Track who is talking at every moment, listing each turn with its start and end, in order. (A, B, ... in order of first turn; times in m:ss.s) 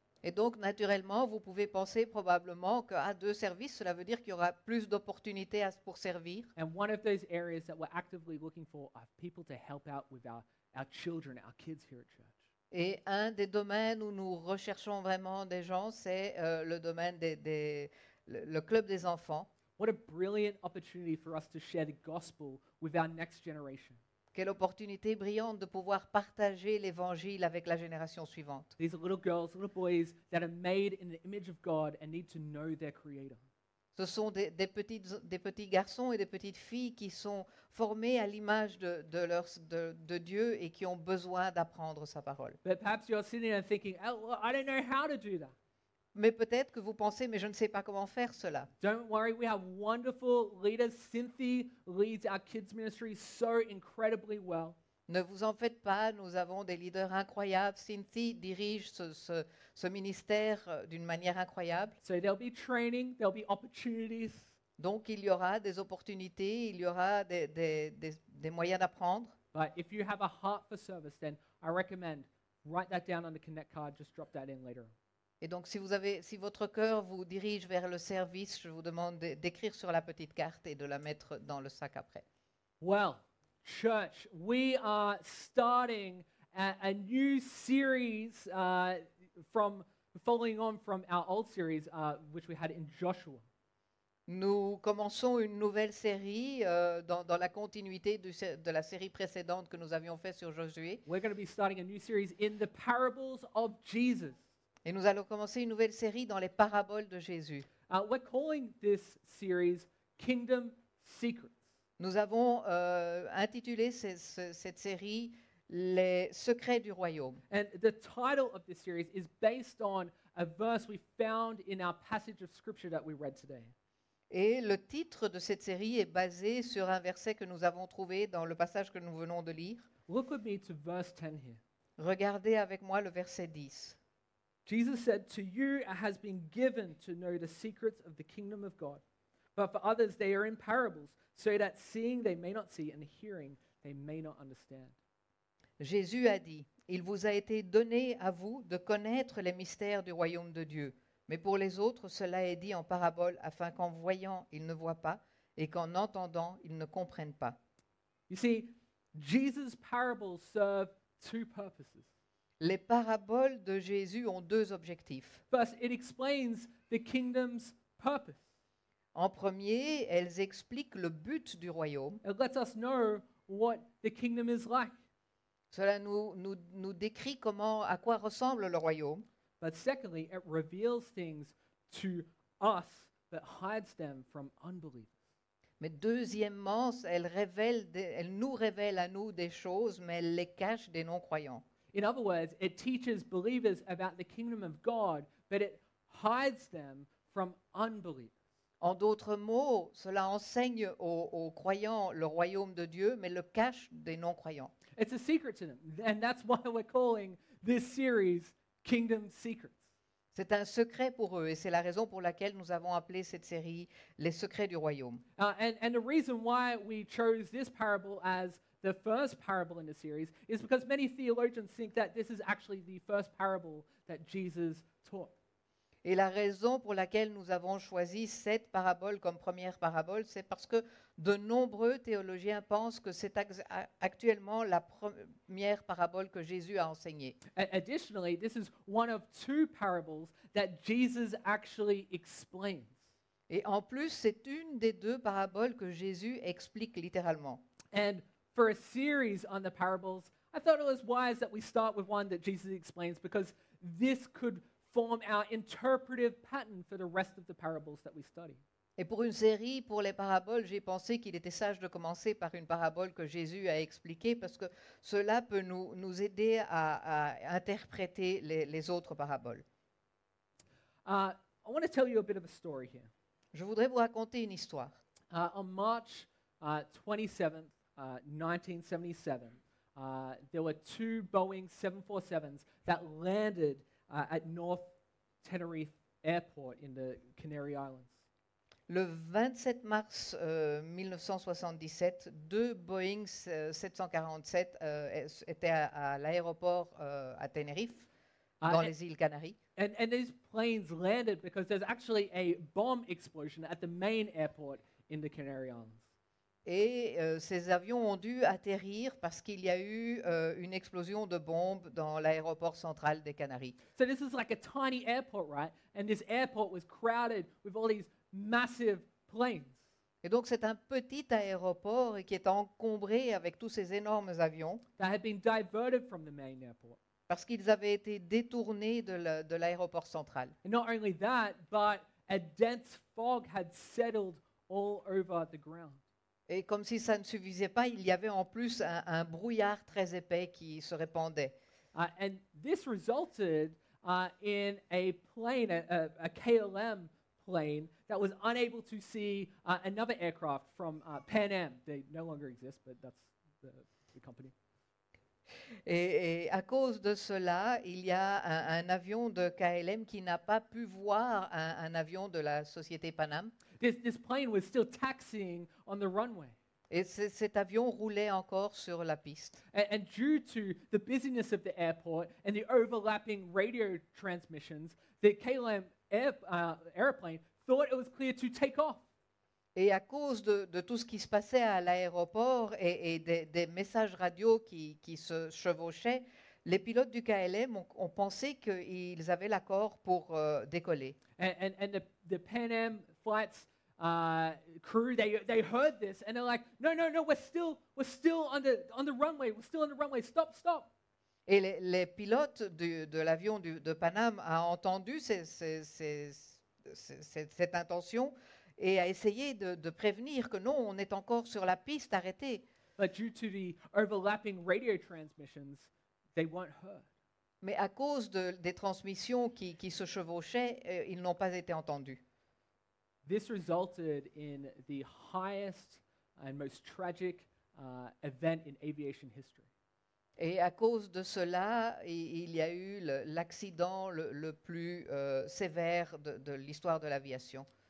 0:00.2-0:06.5 A
0:06.6-0:12.4 B
0:12.7-0:19.5 A
0:19.8-0:24.0 B
0:24.3-0:28.7 A
0:28.8-0:33.4 B
0:34.0-0:42.6 A
0:42.6-0:45.5 B
0:46.1-0:48.7 A
0:48.8-0:54.8 B
0:55.1-1:02.0 A
1:02.0-1:04.5 B
1:04.8-1:09.3 A
1:09.5-1:14.9 B
1:15.4-1:22.2 A
1:22.8-1:33.4 B
1:34.3-1:41.0 A
1:41.0-1:44.4 B
1:44.8-1:47.7 A
1:47.9-1:51.6 B
1:52.0-1:57.4 A
1:57.5-2:03.7 B
2:04.3-2:09.9 A
2:10.1-2:11.6 B
2:12.0-2:14.0 A
2:14.6-2:19.0 B
2:19.6-2:25.0 B
2:25.8-2:37.6 A
2:38.3-2:42.1 B
2:42.6-2:45.4 A
2:45.5-2:48.4 B
2:49.1-2:52.2 A
2:52.2-2:54.9 B
2:55.7-2:59.2 A
2:59.6-3:05.1 B
3:05.8-3:11.6 A
3:11.9-3:18.4 B
3:18.8-3:24.7 A
3:25.0-3:29.8 B
3:30.3-3:35.2 A
3:35.4-3:45.3 B
3:46.0-3:57.4 A
3:57.5-4:03.0 B
4:03.5-4:07.6 A
4:07.9-4:18.6 B
4:19.0-4:29.6 A
4:31.0-4:33.1 B
4:33.5-4:35.0 A
4:35.3-4:44.9 B
4:45.4-4:48.1 B
4:48.9-4:58.1 A
4:58.6-4:58.9 B
4:58.7-4:59.6 A
4:59.8-5:06.0 B
5:06.6-5:13.8 A
5:14.0-5:19.8 B
5:20.2-5:24.8 A
5:25.0-5:27.0 B
5:27.3-5:30.5 A
5:30.6-5:36.0 B
5:36.5-5:41.5 A
5:41.9-5:54.5 B
5:55.8-6:03.5 A
6:03.8-6:06.6 B
6:06.9-6:09.6 A
6:09.7-6:19.0 B
6:19.7-6:31.2 A
6:31.4-6:40.9 B
6:41.5-6:52.6 A
6:53.0-6:57.1 B
6:57.6-7:02.2 A
7:03.2-7:09.7 B
7:10.4-7:17.7 A